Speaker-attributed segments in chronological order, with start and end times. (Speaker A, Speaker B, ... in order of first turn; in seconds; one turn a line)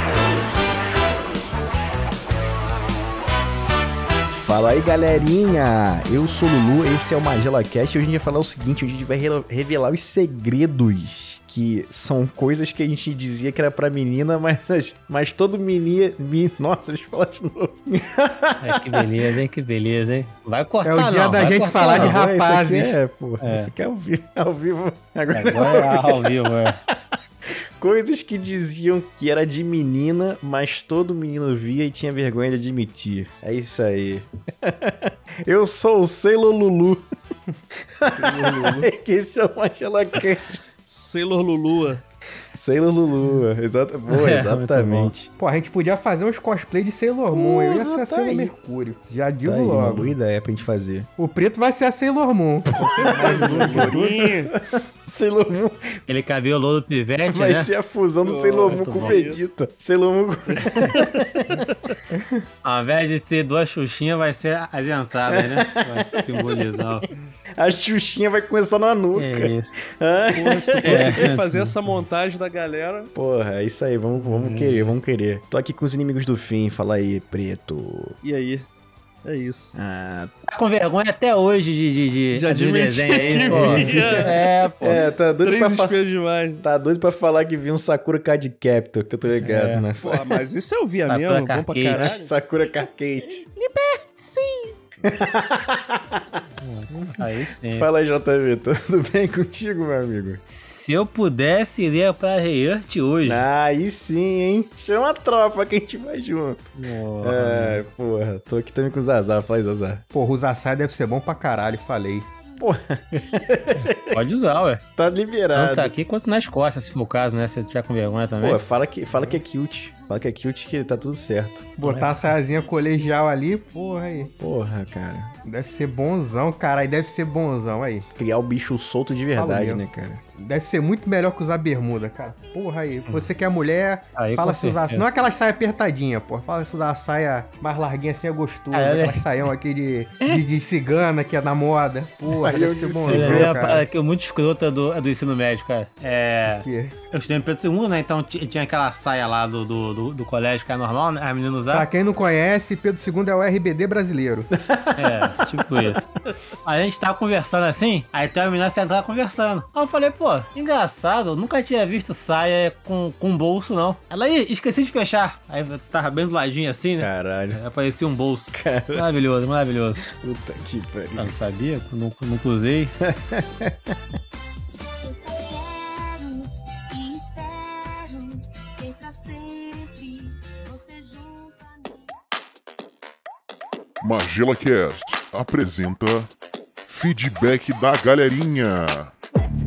Speaker A: 4.3-19.3
Speaker B: 18.6-22.2
Speaker C: 20.8-22.9
Speaker A: 21.7-37.0
Speaker B: 23.4-23.7
Speaker B: 25.3-26.8
Speaker A: 38.0-40.6
Speaker C: 38.2-38.9
Speaker D: 40.9-42.0
Speaker A: 42.5-45.3
Speaker B: 44.1-45.1
Speaker C: 45.4-50.1
Speaker A: 47.3-48.5
Speaker A: 49.4-51.1
Speaker C: 51.2-54.1
Speaker A: 52.8-56.0
Speaker D: 52.9-54.5
Speaker B: 56.1-57.7
Speaker A: 57.3-61.7
Speaker D: 58.2-59.5
Speaker B: 58.7-59.2
Speaker D: 60.5-61.1
Speaker C: 62.1-62.4
Speaker B: 62.6-67.1
Speaker A: 65.3-67.0
Speaker A: 67.6-71.3
Speaker B: 69.2-69.8
Speaker D: 70.3-73.1
Speaker B: 70.8-71.7
Speaker A: 73.1-78.2
Speaker B: 74.2-74.9
Speaker D: 78.2-78.7
Speaker D: 79.2-79.8
Speaker A: 79.8-80.3
Speaker B: 80.5-85.0
Speaker D: 82.3-84.4
Speaker A: 83.2-86.0
Speaker D: 85.4-86.6
Speaker A: 86.6-90.3
Speaker B: 89.4-89.9
Speaker D: 90.0-92.3
Speaker B: 91.1-92.1
Speaker A: 91.9-93.5
Speaker D: 93.6-94.8
Speaker A: 95.0-96.4
Speaker B: 96.6-97.9
Speaker A: 96.9-100.4
Speaker B: 100.5-103.4
Speaker A: 103.2-110.0
Speaker B: 106.8-107.8
Speaker C: 110.1-112.3
Speaker A: 112.6-114.2
Speaker B: 114.1-114.8
Speaker A: 115.0-115.9
Speaker B: 115.5-118.6
Speaker E: 118.1-118.4
Speaker A: 118.4-121.8
Speaker E: 119.9-120.2
Speaker E: 121.0-121.4
Speaker C: 121.8-124.3
Speaker B: 121.8-122.1
Speaker E: 123.7-125.8
Speaker A: 124.4-125.3
Speaker C: 125.5-128.1
Speaker A: 128.2-130.2
Speaker C: 129.4-129.8
Speaker C: 130.4-143.9
Speaker B: 134.2-135.1
Speaker B: 138.7-139.2
Speaker A: 142.3-143.8
Speaker B: 143.1-151.9
Speaker C: 146.6-146.9
Speaker C: 151.7-154.5
Speaker A: 154.5-156.1
Speaker B: 155.0-156.0
Speaker B: 156.6-170.0
Speaker A: 167.0-167.6
Speaker A: 168.5-169.1
Speaker A: 170.0-171.4
Speaker B: 171.2-172.9
Speaker A: 173.0-174.0
Speaker E: 175.0-182.2
Speaker F: 184.0-186.3
Speaker F: 186.8-189.1